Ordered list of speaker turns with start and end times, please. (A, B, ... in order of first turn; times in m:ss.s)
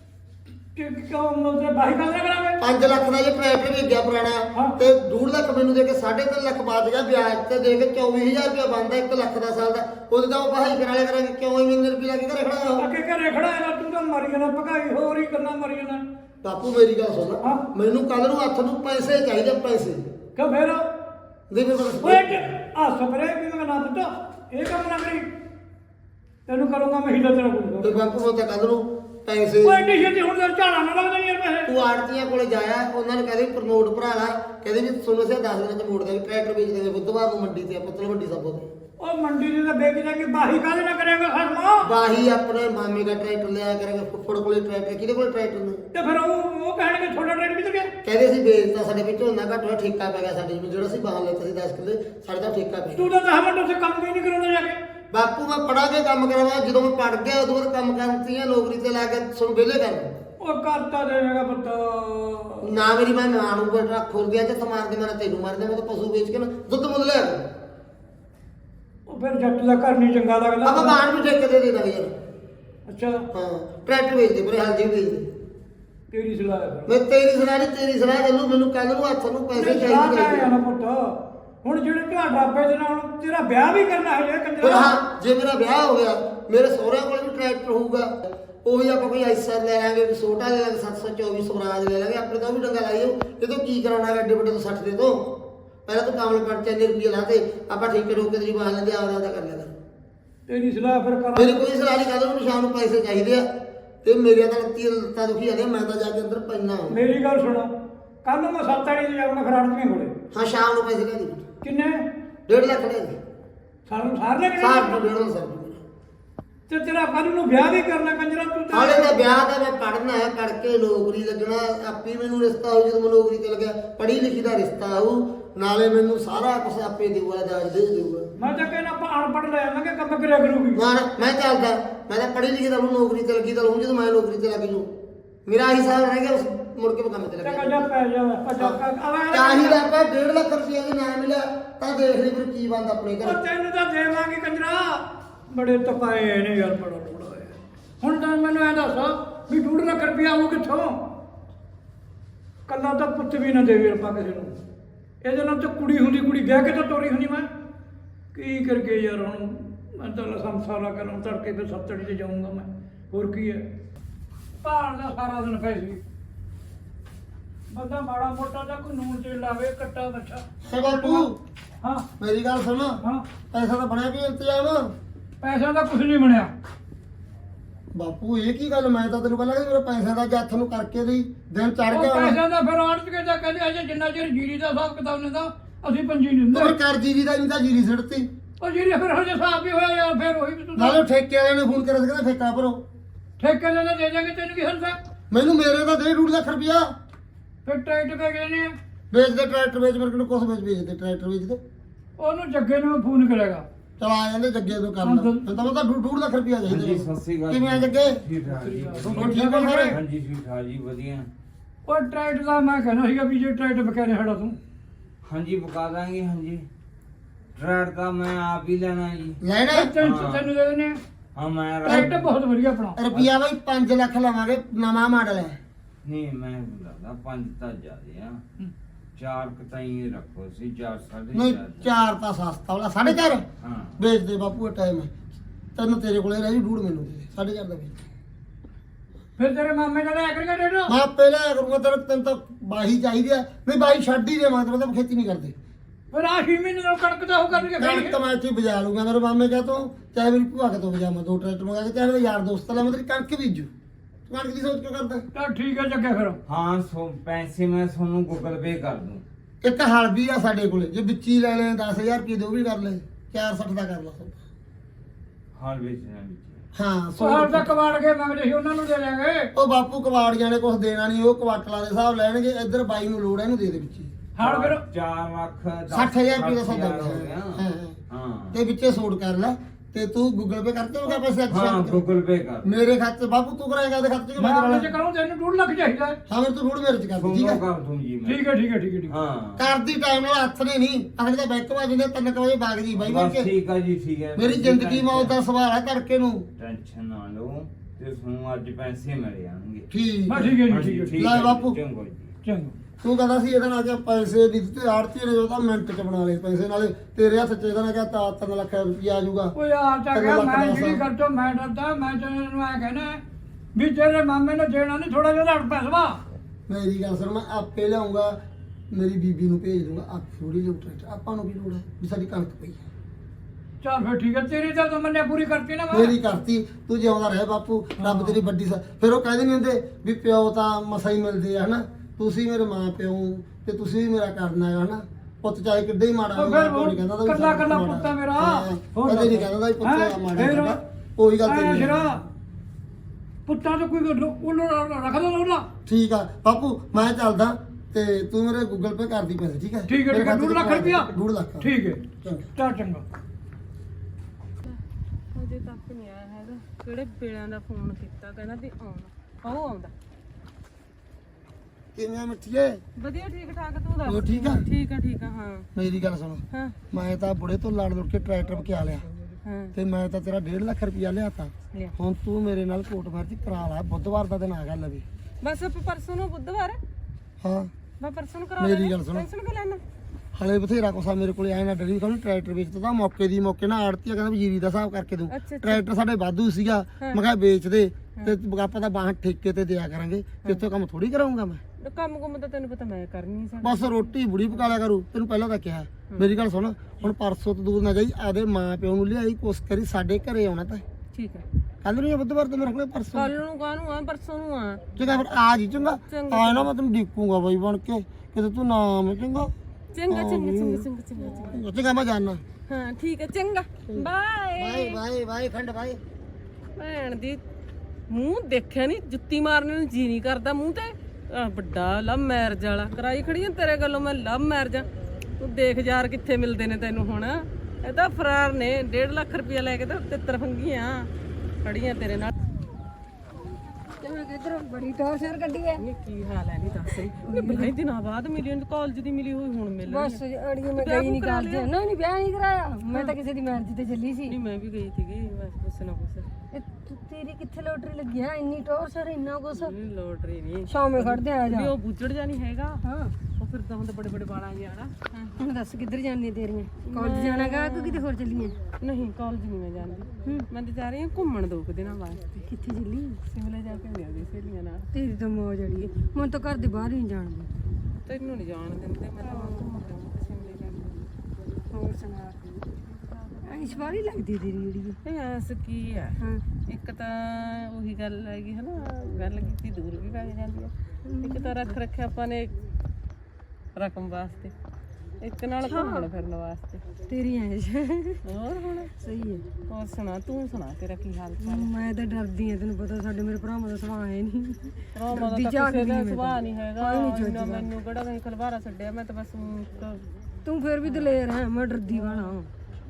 0:00.7-0:02.6 A
0:02.6-0:12.9 B
0:12.8-0:16.0 A
0:16.4-0:20.0 B
0:20.4-0:20.8 A
0:21.5-0:22.3 B
0:22.0-0:25.3 A
0:26.5-0:28.0 A
0:27.8-0:29.9 B
0:29.6-0:31.7 A
0:31.6-0:38.7 B
0:39.0-0:41.9 A
0:41.8-0:45.8 B
0:45.9-0:47.9 A
0:48.0-0:53.1 B
0:52.9-0:54.8 A
0:55.1-1:00.2 B
1:00.4-1:02.8 A
1:02.6-1:07.4 B
1:09.1-1:11.0 A
1:10.6-1:12.1 B
1:12.9-1:13.2 A
1:13.3-1:15.3 B
1:16.1-1:16.9 A
1:16.9-1:20.5 B
1:19.5-1:25.0 A
1:24.6-1:35.2 B
1:35.9-1:39.8 B
1:40.5-1:41.6 A
1:41.4-1:43.5 B
1:44.0-1:47.0 B
1:46.9-1:47.7 A
1:48.2-1:50.1 A
1:50.3-1:51.4 B
1:51.6-1:52.0 A
1:52.5-1:53.1 B
1:53.9-1:55.0 A
1:54.6-1:55.8 B
1:56.7-1:59.2 A
1:58.7-2:08.3 B
2:08.4-2:10.8 A
2:10.7-2:14.9 B
2:15.4-2:17.9 B
2:17.4-2:19.8 A
2:19.3-2:23.4 B
2:23.2-2:31.0 A
2:32.7-2:34.5 A
2:35.2-2:37.5 A
2:38.3-2:43.6 A
2:44.6-2:46.0 A
2:47.7-2:51.3 A
2:50.6-2:51.4 B
2:51.8-2:52.1 A
2:52.2-2:53.0 B
2:53.5-2:54.9 B
2:55.4-2:56.5 A
2:57.9-3:02.4 B
3:01.9-3:06.7 A
3:06.5-3:08.3 B
3:08.6-3:11.0 A
3:10.8-3:12.8 B
3:13.4-3:15.0 A
3:15.3-3:16.9 B
3:17.6-3:18.7 A
3:19.1-3:21.6 B
3:22.2-3:23.6 A
3:24.0-3:28.2 B
3:25.0-3:25.4 A
3:26.6-3:29.3 C
3:28.5-3:29.9 A
3:29.1-3:30.0 B
3:29.9-3:31.3 C
3:31.8-3:34.6 A
3:35.2-3:36.6 C
3:37.6-3:39.4 C
3:39.4-3:39.9 B
3:39.7-3:41.0 A
3:40.0-3:40.5 C
3:41.3-3:42.3 C
3:41.8-3:43.0 A
3:41.9-3:42.1 B
3:43.0-3:45.6 B
3:46.0-3:48.4 C
3:49.2-3:51.9 C
3:51.3-3:53.4 B
3:53.6-3:54.0 C
3:54.0-3:55.1 B
3:55.8-3:58.0 B
3:59.4-4:00.9 A
4:00.9-4:05.5 B
4:06.1-4:08.1 A
4:07.7-4:13.7 B
4:14.3-4:15.2 B
4:15.3-4:16.4 A
4:16.4-4:19.2 C
4:19.6-4:24.4 B
4:25.5-4:26.6 C
4:26.7-4:27.7 B
4:27.2-4:29.5 A
4:29.5-4:34.1 B
4:34.4-4:34.8 A
4:34.4-4:38.6 C
4:35.9-4:38.0 B
4:38.5-4:42.0 B
4:41.5-4:42.7 C
4:42.6-4:44.9 B
4:44.4-4:46.2 A
4:46.3-4:47.6 B
4:47.2-4:48.5 C
4:48.2-4:49.1 A
4:49.1-4:49.7 C
4:49.6-4:53.5 B
4:52.9-4:55.4 C
4:54.4-4:56.5 B
4:56.6-4:59.9 C
4:59.9-5:00.6 B
5:00.3-5:01.2 A
5:00.6-5:02.3 C
5:01.2-5:01.8 B
5:02.4-5:02.7 A
5:03.0-5:09.5 B
5:09.5-5:13.2 A
5:10.1-5:11.0 B
5:13.7-5:16.2 A
5:16.7-5:18.4 B
5:18.9-5:22.8 B
5:23.8-5:26.1 A
5:25.9-5:42.1 B
5:28.0-5:28.4 A
5:36.4-5:40.8 A
5:41.4-5:42.2 A
5:43.5-5:45.7 A
5:45.8-5:51.7 B
5:49.9-5:51.1 A
5:51.6-5:52.0 A
5:52.2-5:52.5 B
5:52.6-5:53.0 A
5:55.3-5:59.9 D
6:02.0-6:02.8 B
6:03.0-6:05.7 D
6:04.0-6:04.7 B
6:05.7-6:09.0 B
6:06.5-6:06.8 D
6:09.4-6:09.7 D
6:09.7-6:15.0 B
6:15.4-6:16.8 D
6:17.4-6:17.7 B
6:18.0-6:19.8 D
6:18.6-6:19.3 B
6:20.3-6:31.6 B
6:25.3-6:25.8 D
6:31.8-6:34.0 D
6:33.6-6:40.8 B
6:41.1-6:41.4 D
6:41.8-6:43.3 B
6:43.1-6:44.8 D
6:45.0-6:49.5 B
6:46.1-6:46.7 D
6:49.9-6:51.6 D
6:50.1-6:50.8 B
6:51.5-6:52.4 B
6:52.7-6:55.0 D
6:53.9-6:56.0 B
6:56.8-6:57.4 D
6:58.1-7:04.9 D
7:05.4-7:11.1 D
7:11.6-7:12.3 D
7:14.0-7:15.8 E
7:15.8-7:21.7 D
7:17.2-7:17.7 E
7:19.8-7:24.4 E
7:24.3-7:26.3 D
7:26.5-7:29.7 E
7:29.5-7:32.8 D
7:30.7-7:31.7 E
7:32.8-7:33.1 E
7:33.4-7:35.4 D
7:35.4-7:38.6 E
7:36.8-7:38.0 D
7:38.8-7:42.4 D
7:42.4-7:43.2 E
7:43.3-7:44.9 D
7:44.9-7:47.6 E
7:48.0-7:51.0 D
7:49.2-7:49.8 E
7:51.7-7:52.4 E
7:53.4-7:55.0 E
7:55.0-7:56.2 D
7:56.7-8:02.5 D
8:01.0-8:01.7 E
8:03.8-8:04.5 D
8:05.2-8:06.8 D
8:05.6-8:06.1 E
8:07.1-8:08.2 E
8:08.2-8:08.9 D
8:09.0-8:09.4 E
8:09.7-8:11.7 D
8:11.4-8:17.6 E
8:14.9-8:20.0 D
8:20.4-8:22.4 E
8:20.8-8:21.2 D
8:21.9-8:22.5 D